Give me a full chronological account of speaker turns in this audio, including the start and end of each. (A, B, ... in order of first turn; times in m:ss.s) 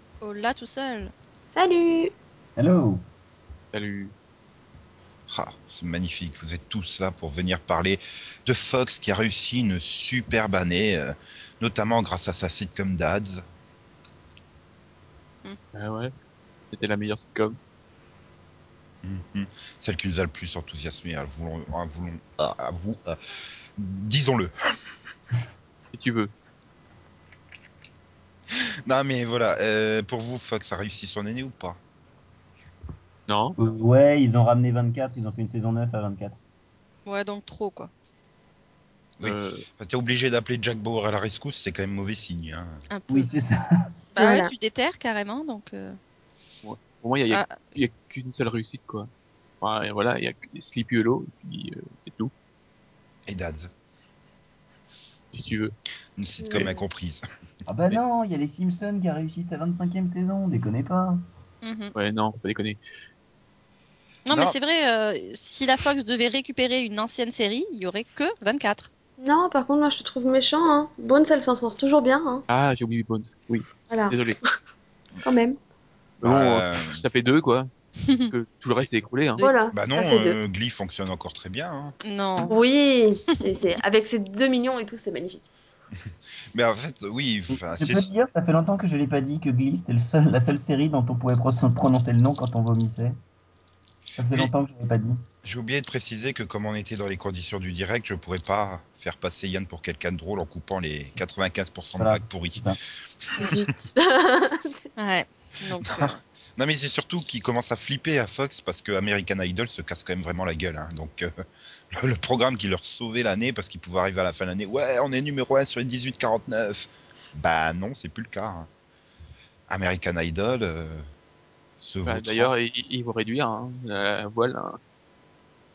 0:00.2-0:01.1 A
0:01.5-0:02.1 B
0:02.6-0:03.0 C
0:03.7-0:04.1 D
0:05.3-0:13.4 E
0:15.8-0:16.1 D
0:16.7-0:17.6 D
0:19.0-0:24.5 E
0:25.9-0:26.3 D
0:28.5-0:31.8 E
0:33.3-0:33.6 D
0:33.6-0:36.4 C
0:37.0-0:37.9 A
0:39.2-0:42.8 E
0:39.2-0:39.7 D
0:42.9-0:43.3 A
0:43.1-0:43.9 C
0:44.1-0:46.0 A
0:44.2-0:44.5 B
0:46.6-0:49.1 D
0:47.3-0:47.6 A
0:49.6-0:52.3 D
0:53.3-0:53.7 E
0:55.3-0:55.7 D
0:56.2-0:57.2 E
0:56.4-0:56.9 B
0:57.7-1:01.2 C
1:01.6-1:01.9 A
1:01.9-1:02.8 D
1:04.2-1:08.9 A
1:04.3-1:04.6 E
1:09.2-1:12.4 B
1:12.5-1:14.4 D
1:13.9-1:14.2 B
1:15.2-1:15.6 B
1:16.2-1:17.0 E
1:16.2-1:17.7 D
1:18.0-1:18.3 A
1:18.2-1:19.4 D
1:19.4-1:20.4 B
1:19.7-1:22.0 E
1:22.0-1:22.6 A
1:22.5-1:25.4 B
1:23.3-1:23.5 A
1:26.5-1:28.1 E
1:27.5-1:33.2 C
1:34.2-1:35.2 C
1:35.4-1:42.7 E
1:42.0-1:42.8 C
1:43.2-1:43.7 E
1:43.4-1:44.9 B
1:45.0-1:46.2 A
1:45.8-1:58.7 E
1:59.7-2:01.1 E
2:01.8-2:02.5 E
2:02.1-2:04.8 D